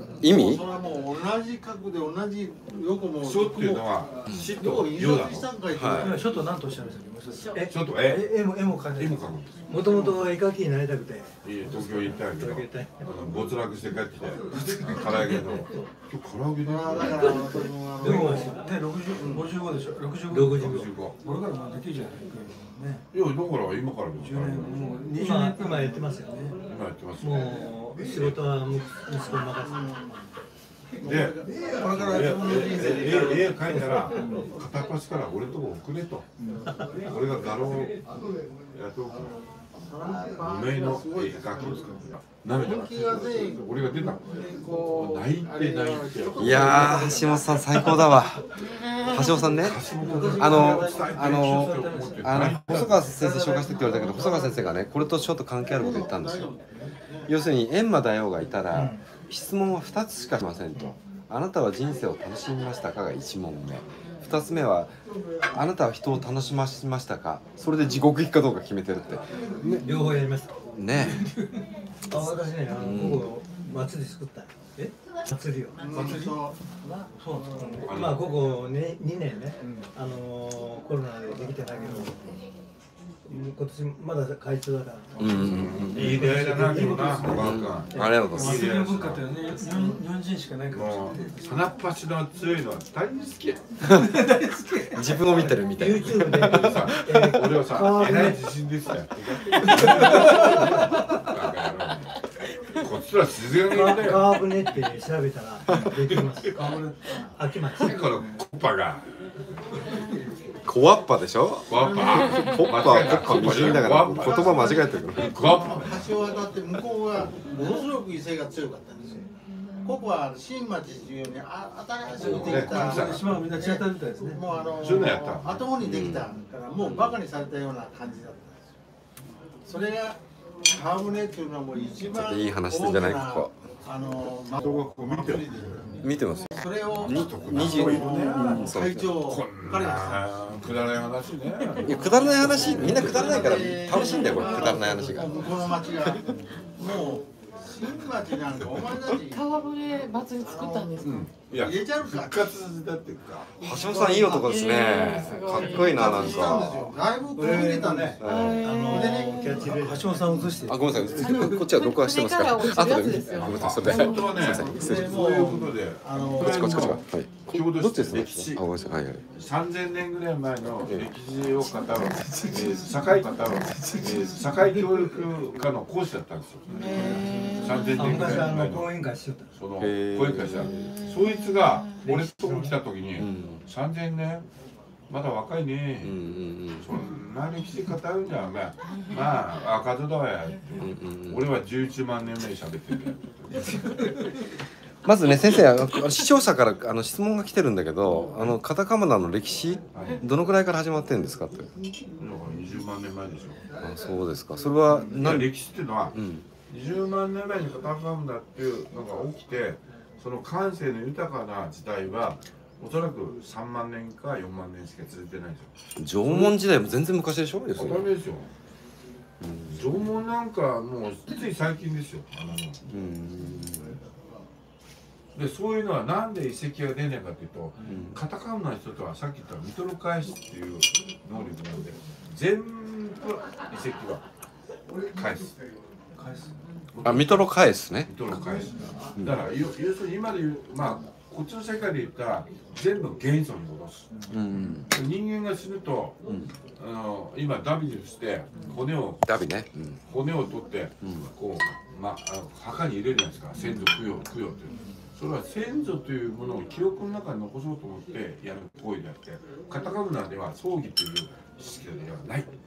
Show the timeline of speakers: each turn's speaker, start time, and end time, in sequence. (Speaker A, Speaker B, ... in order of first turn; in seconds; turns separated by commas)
Speaker A: 0.2-0.7, Speaker B: 0.2-3.9, Speaker C: 3.2-5.5, Speaker B: 4.5-6.4, Speaker A: 5.7-6.2, Speaker D: 6.0-9.2, Speaker C: 7.6-9.7, Speaker E: 9.7-13.1, Speaker D: 9.8-10.1, Speaker C: 11.4-17.6, Speaker D: 14.5-15.6, Speaker B: 16.6-18.6, Speaker E: 17.2-18.7, Speaker D: 17.2-23.1, Speaker B: 19.2-19.5, Speaker E: 20.3-20.9, Speaker C: 20.6-21.2, Speaker C: 23.1-25.1, Speaker D: 24.1-26.6, Speaker E: 25.1-26.4, Speaker C: 26.6-28.4, Speaker E: 27.2-29.9, Speaker B: 29.6-30.2, Speaker B: 31.0-33.7, Speaker C: 31.0-36.3, Speaker E: 33.7-34.2, Speaker D: 34.1-34.5, Speaker D: 36.4-36.7, Speaker C: 37.0-38.0, Speaker C: 38.7-39.3, Speaker B: 39.8-42.0, Speaker C: 40.4-44.3, Speaker B: 42.5-48.2, Speaker C: 44.9-47.1, Speaker A: 46.4-49.8, Speaker F: 48.8-49.5, Speaker C: 49.6-53.2, Speaker D: 49.9-53.0, Speaker B: 50.2-51.1, Speaker A: 50.4-56.5, Speaker B: 53.1-54.8, Speaker B: 55.7-57.3, Speaker A: 57.3-64.9, Speaker E: 58.7-59.0, Speaker A: 65.5-69.9, Speaker E: 69.8-70.5, Speaker A: 70.7-71.3, Speaker D: 71.0-71.6, Speaker E: 72.1-74.5, Speaker A: 72.7-73.3, Speaker E: 75.3-76.3, Speaker B: 75.8-77.9, Speaker D: 75.8-76.6, Speaker D: 77.2-77.9, Speaker E: 77.6-82.2, Speaker C: 77.8-78.4, Speaker E: 83.2-88.2, Speaker C: 85.2-89.3, Speaker A: 85.2-86.4, Speaker A: 87.3-88.7, Speaker D: 88.2-91.4, Speaker C: 90.7-93.7, Speaker A: 93.9-94.1, Speaker D: 93.9-95.2, Speaker A: 94.9-97.4, Speaker E: 95.2-98.4, Speaker C: 96.4-102.2, Speaker D: 99.6-101.1, Speaker E: 100.4-100.8, Speaker C: 102.8-104.4, Speaker E: 103.7-106.7, Speaker D: 106.4-107.3, Speaker E: 107.3-108.0, Speaker C: 107.8-109.1, Speaker A: 110.7-115.4, Speaker C: 111.7-116.3, Speaker B: 114.3-119.2, Speaker B: 119.8-128.5, Speaker C: 122.2-123.4, Speaker D: 122.2-124.8, Speaker C: 124.8-125.7, Speaker A: 125.8-126.3, Speaker B: 129.7-140.3, Speaker A: 132.0-133.6, Speaker C: 134.6-135.5, Speaker A: 136.0-139.2, Speaker C: 136.9-138.6, Speaker C: 139.2-143.5, Speaker A: 141.8-146.2, Speaker B: 142.4-149.5, Speaker F: 144.1-144.6, Speaker C: 148.6-149.0, Speaker F: 149.2-151.2, Speaker B: 150.4-152.6, Speaker C: 151.0-153.6, Speaker A: 153.6-156.8, Speaker B: 153.6-159.8, Speaker F: 154.3-156.6, Speaker C: 156.5-157.0, Speaker E: 157.4-160.5, Speaker A: 158.2-158.7, Speaker F: 158.2-159.6, Speaker D: 159.6-161.6, Speaker A: 160.7-165.3, Speaker F: 161.2-164.6, Speaker C: 163.2-168.6, Speaker B: 164.1-167.0, Speaker A: 166.3-169.2, Speaker C: 169.3-179.0, Speaker A: 170.9-171.1, Speaker D: 172.0-175.0, Speaker D: 176.7-178.0, Speaker F: 176.7-178.1, Speaker E: 178.0-179.5, Speaker C: 179.6-184.5, Speaker A: 179.8-181.0, Speaker F: 180.7-182.1, Speaker E: 182.0-182.8, Speaker A: 183.2-183.6, Speaker C: 185.1-186.3, Speaker A: 186.0-187.0, Speaker C: 186.8-193.9, Speaker A: 190.8-191.5, Speaker A: 195.1-201.7, Speaker C: 199.9-200.3, Speaker C: 202.2-203.6, Speaker A: 203.8-205.5, Speaker C: 205.0-206.2, Speaker A: 206.1-206.5, Speaker C: 206.7-215.7, Speaker A: 216.0-218.1, Speaker C: 216.2-216.6, Speaker C: 217.8-218.5, Speaker A: 219.4-220.1, Speaker C: 219.7-222.8, Speaker A: 222.9-224.0, Speaker C: 225.3-234.2, Speaker A: 227.8-228.2, Speaker C: 235.1-235.6, Speaker D: 236.2-236.5, Speaker C: 236.9-237.5, Speaker A: 237.0-239.4, Speaker C: 238.0-244.1, Speaker A: 244.3-244.9, Speaker C: 244.9-246.2, Speaker C: 246.8-249.3, Speaker A: 249.3-250.0, Speaker C: 250.1-262.5, Speaker A: 251.0-251.3